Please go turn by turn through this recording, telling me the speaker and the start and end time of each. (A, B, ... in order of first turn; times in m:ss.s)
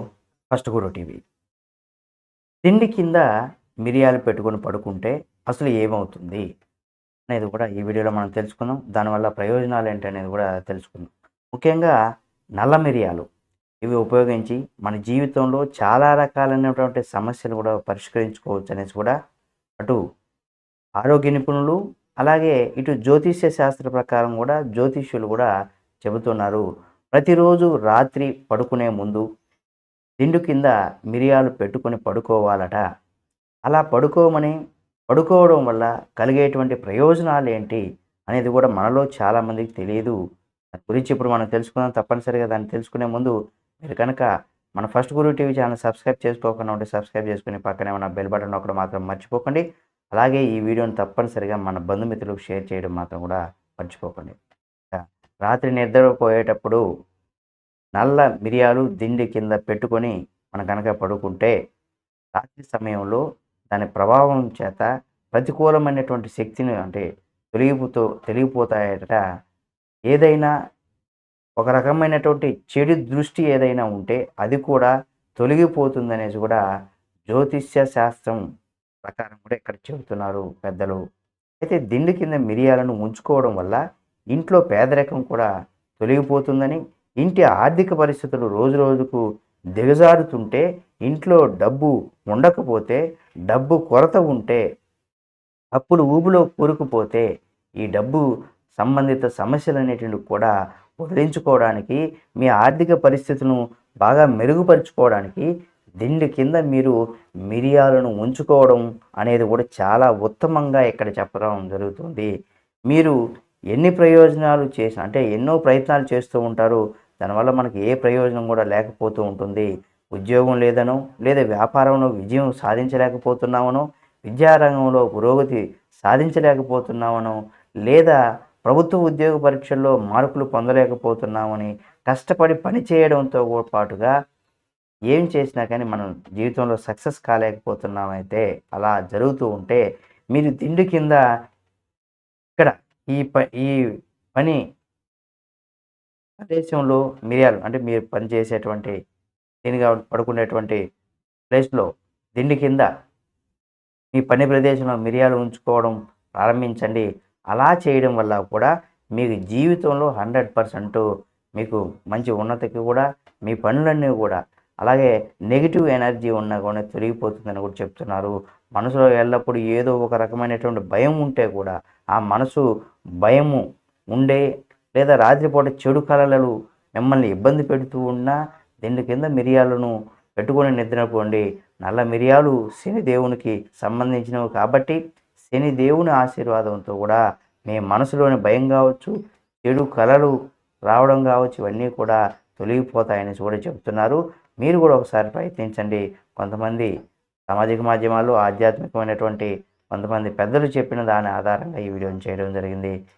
0:00.5-0:01.2 A
0:02.6-0:03.2 A
0:03.8-0:06.4 A
0:07.3-0:12.0 A
0:12.6-0:13.2 A
0:13.8-0:19.1 A
0:21.0-0:25.5 A
0:26.0-0:29.2 A
0:30.2-0:32.8 A
0:33.7-0:34.6 A
0:35.1-0:40.2 A
0:40.8-0:49.6 A
0:50.1-0:54.4 A
0:54.9-0:56.8 A
0:58.0-1:01.5 A
1:02.4-1:09.2 A
1:10.1-1:10.5 A
1:11.6-1:16.6 A
1:17.3-1:18.4 A
1:19.0-1:21.0 A
1:21.6-1:23.8 A
1:24.3-1:25.5 A
1:26.0-1:29.2 A
1:29.8-1:34.6 A
1:35.8-1:37.2 A
1:37.8-1:38.2 A
1:38.8-1:45.5 A
1:46.0-1:47.0 A
1:47.5-1:52.3 A
1:52.9-1:53.2 A
1:53.7-2:14.1 A
2:15.1-2:19.8 A
2:20.3-2:21.2 A
2:22.6-2:23.8 A
2:26.4-2:28.9 A
2:29.6-2:30.8 A
2:31.5-2:32.9 A
2:34.1-2:41.0 A
2:41.6-2:52.6 A
2:53.2-2:53.6 A
2:54.1-3:05.0 A
3:05.5-3:10.3 A
3:10.9-3:16.9 A
3:17.5-3:22.9 A